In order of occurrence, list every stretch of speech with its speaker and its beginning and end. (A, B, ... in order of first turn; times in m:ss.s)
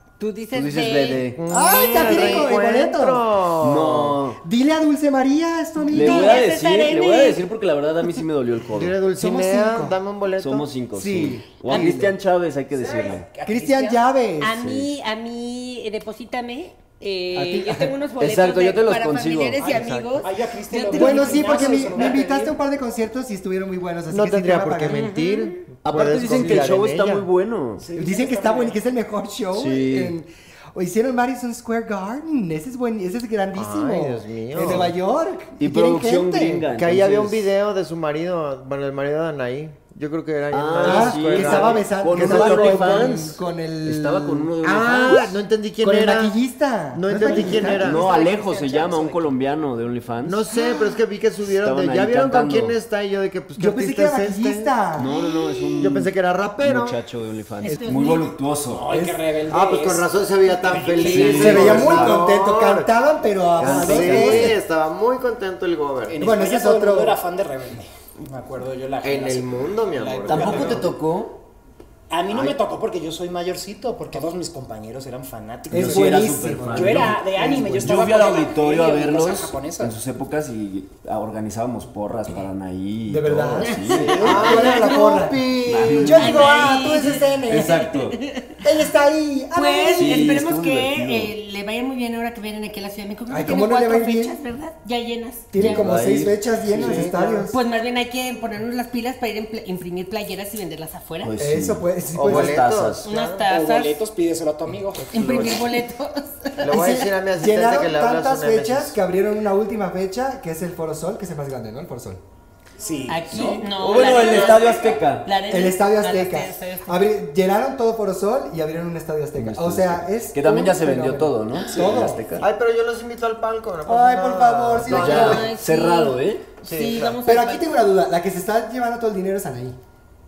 0:00.2-0:01.2 A
0:00.5-0:01.4 B
0:01.4-0:04.2 C
0:01.5-0:03.2 D
0:01.8-0:02.5 A
0:03.6-0:04.4 B
0:04.4-0:06.4 D
0:05.9-0:07.4 A
0:05.9-0:09.0 B
0:08.7-0:10.7 C
0:09.2-0:10.0 D
0:10.4-0:13.3 B
0:10.9-0:12.2 D
0:12.7-0:14.0 E
0:13.4-0:14.6 D
0:14.4-0:22.4 A
0:14.6-0:14.9 B
0:17.3-0:17.9 D
0:18.2-0:19.6 B
0:19.6-0:22.5 E
0:19.7-0:20.0 C
0:20.9-0:25.1 D
0:24.1-0:27.3 C
0:24.9-0:25.6 A
0:25.8-0:27.8 B
0:26.3-0:26.7 D
0:27.8-0:28.8 E
0:27.9-0:36.6 D
0:29.5-0:30.1 B
0:33.5-0:34.9 C
0:35.6-0:37.5 B
0:36.7-0:43.3 C
0:40.5-0:45.4 B
0:40.8-0:44.5 D
0:44.6-0:46.3 C
0:45.8-0:47.9 D
0:46.9-0:48.3 C
0:47.6-0:49.2 A
0:47.8-0:50.4 B
0:50.2-0:54.7 C
0:51.6-0:52.8 B
0:53.6-0:55.1 D
0:54.9-0:58.9 B
0:55.1-0:55.8 A
0:55.8-0:57.0 C
0:57.6-0:58.3 A
0:58.7-1:02.1 E
0:59.5-1:02.9 C
1:01.0-1:02.1 B
1:01.3-1:04.6 D
1:03.6-1:04.6 B
1:03.6-1:06.2 C
1:06.1-1:10.9 E
1:06.2-1:07.2 D
1:09.0-1:10.9 C
1:10.3-1:11.4 B
1:12.1-1:20.0 E
1:12.3-1:12.6 C
1:15.7-1:17.2 D
1:15.7-1:24.8 B
1:23.1-1:27.9 D
1:23.6-1:25.2 A
1:24.0-1:24.8 E
1:24.2-1:26.4 C
1:25.6-1:26.7 B
1:26.2-1:28.6 A
1:27.4-1:28.2 B
1:28.6-1:30.4 D
1:29.5-1:35.8 A
1:30.0-1:31.3 B
1:33.3-1:34.4 D
1:35.5-1:37.6 D
1:35.6-1:37.1 B
1:36.7-1:37.5 C
1:37.5-1:41.3 A
1:41.2-1:43.0 B
1:41.4-1:42.6 D
1:42.2-1:43.5 C
1:43.0-1:43.9 A
1:43.5-1:45.6 E
1:45.1-1:46.6 A
1:46.6-1:49.0 C
1:46.7-1:52.2 D
1:52.8-1:53.7 E
1:53.1-1:57.0 A
1:53.4-1:55.3 B
1:55.5-2:02.3 D
1:59.4-2:02.5 B
2:02.4-2:05.5 C
2:03.8-2:05.5 D
2:04.8-2:06.4 B
2:04.9-2:07.7 A
2:06.6-2:07.2 C
2:07.2-2:09.8 D